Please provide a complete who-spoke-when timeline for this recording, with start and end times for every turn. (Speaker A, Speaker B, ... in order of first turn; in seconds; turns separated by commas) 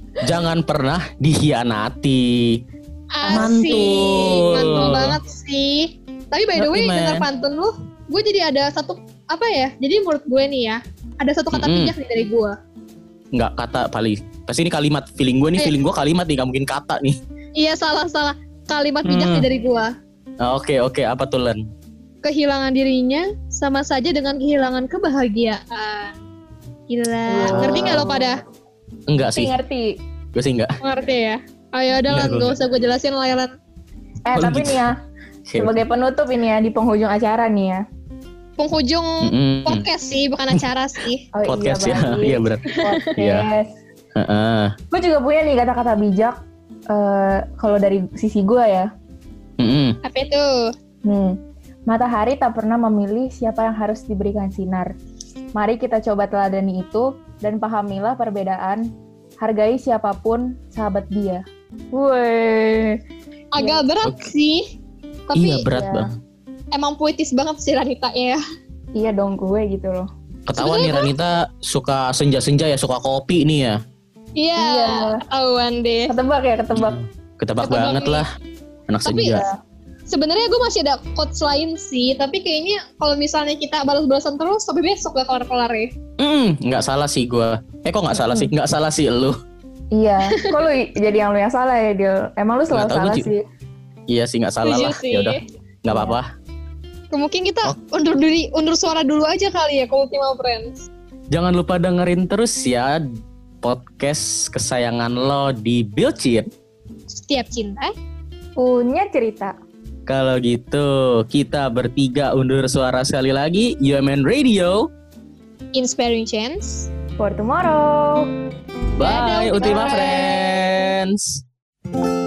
Speaker A: 0.2-2.6, Speaker B: 3.1-12.6, Speaker C: 3.2-4.2, Speaker A: 3.3-5.2, Speaker A: 6.6-7.2, Speaker A: 11.5-11.9, Speaker A: 13.3-17.2, Speaker B: 17.6-19.9, Speaker A: 19.0-19.5, Speaker A: 20.4-21.6, Speaker B: 22.2-26.1, Speaker B: 26.9-28.4, Speaker C: 27.3-28.3, Speaker A: 27.5-28.1, Speaker A: 29.1-29.5, Speaker C: 29.3-29.9, Speaker A: 30.3-30.8, Speaker B: 30.8-33.5, Speaker A: 32.1-32.6, Speaker C: 34.3-34.9, Speaker A: 34.3-34.8, Speaker A: 35.5-35.8, Speaker C: 35.6-37.8, Speaker B: 38.6-41.2, Speaker A: 39.2-39.8, Speaker C: 41.3-43.7, Speaker A: 41.5-42.6, Speaker A: 43.1-43.5, Speaker A: 44.1-44.7, Speaker C: 44.9-46.4, Speaker C: 46.9-48.9, Speaker A: 49.6-50.0, Speaker B: 50.0-50.7, Speaker C: 51.0-51.4, Speaker C: 51.9-54.9, Speaker C: 55.5-58.8, Speaker C: 59.4-63.0, Speaker B: 63.5-64.6, Speaker B: 65.3-65.6, Speaker A: 65.3-66.1, Speaker C: 65.7-66.0, Speaker B: 66.7-68.4, Speaker C: 69.0-70.1, Speaker A: 70.5-73.8, Speaker B: 70.6-71.1, Speaker B: 74.4-76.1, Speaker C: 74.6-75.2, Speaker C: 76.1-77.0, Speaker A: 76.7-78.3, Speaker B: 77.6-78.2, Speaker A: 78.9-79.4, Speaker B: 79.0-79.4, Speaker B: 80.1-85.9, Speaker A: 86.2-89.3, Speaker C: 88.2-88.5, Speaker C: 89.9-93.4, Speaker A: 92.7-93.3, Speaker A: 94.1-96.3, Speaker B: 94.6-95.4, Speaker C: 95.9-96.2, Speaker B: 97.1-100.8, Speaker A: 101.3-103.0, Speaker A: 103.6-106.5, Speaker B: 107.1-107.9, Speaker C: 108.6-109.5, Speaker A: 110.1-114.9, Speaker B: 115.7-116.9, Speaker C: 117.2-118.3, Speaker A: 119.0-121.4, Speaker B: 119.0-120.4